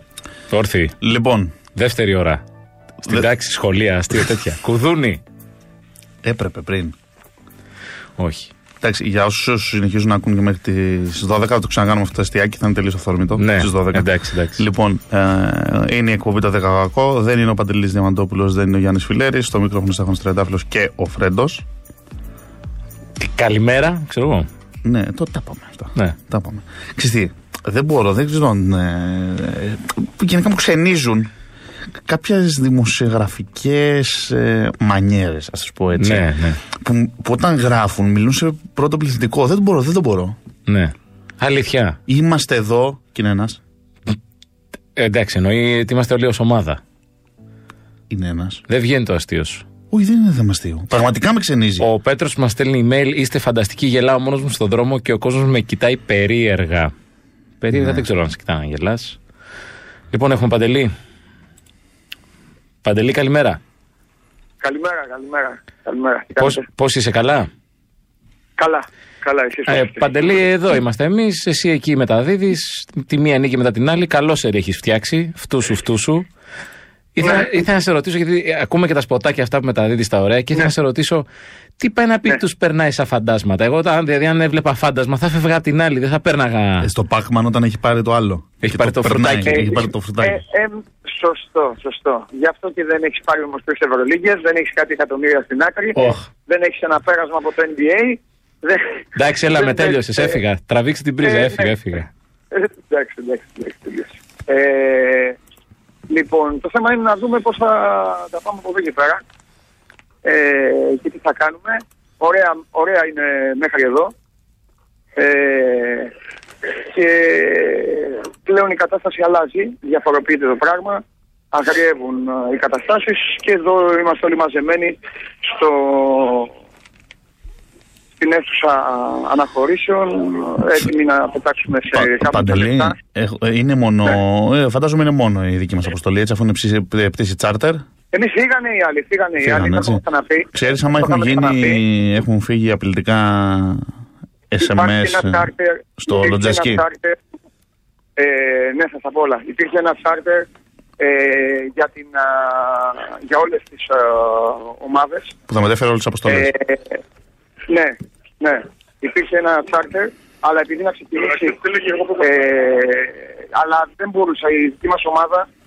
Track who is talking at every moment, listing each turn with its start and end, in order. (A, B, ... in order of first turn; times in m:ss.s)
0:00.5-0:01.0 A
0:01.0-0:01.6 B
0:01.8-0:02.4 A
0:03.1-0:05.2 A
0:06.2-0:06.9 B
0:08.2-0:08.5 A
0:08.8-0:21.6 B
0:13.4-0:14.7 A
0:23.2-0:24.5 A
0:24.8-0:31.3 B
0:32.0-0:40.4 B
0:36.0-0:36.6 A
0:40.7-0:42.0 A
0:42.1-0:43.6 B
0:45.0-0:46.8 A
0:48.1-0:48.6 B
0:48.7-0:49.6 A
0:49.9-0:51.9 B
0:51.8-0:56.9 A
0:57.6-0:59.2 A
0:57.7-0:58.0 B
1:00.1-1:00.9 A
1:02.8-1:03.6 A
1:04.6-1:06.6 C
1:06.4-1:07.5 A
1:08.6-1:10.1 C
1:09.7-1:16.3 A
1:17.1-1:21.3 A
1:17.2-1:17.5 C
1:21.8-1:26.9 A
1:26.8-1:30.4 B
1:28.6-1:29.9 A
1:29.5-1:40.4 C
1:39.2-1:42.1 A
1:41.2-1:41.8 C
1:42.5-1:45.4 C
1:46.1-1:49.2 C
1:50.2-1:54.1 C
1:55.2-1:56.1 C
1:56.7-2:06.5 C
2:08.2-2:13.0 C
2:11.9-2:17.8 B
2:18.1-2:21.8 C
2:19.4-2:20.0 B
2:20.5-2:23.9 B
2:24.5-2:26.8 B
2:24.6-2:27.2 C
2:28.2-2:30.5 C
2:31.0-2:35.3 C
2:35.5-2:36.5 B
2:36.3-2:37.0 C
2:37.7-2:45.5 C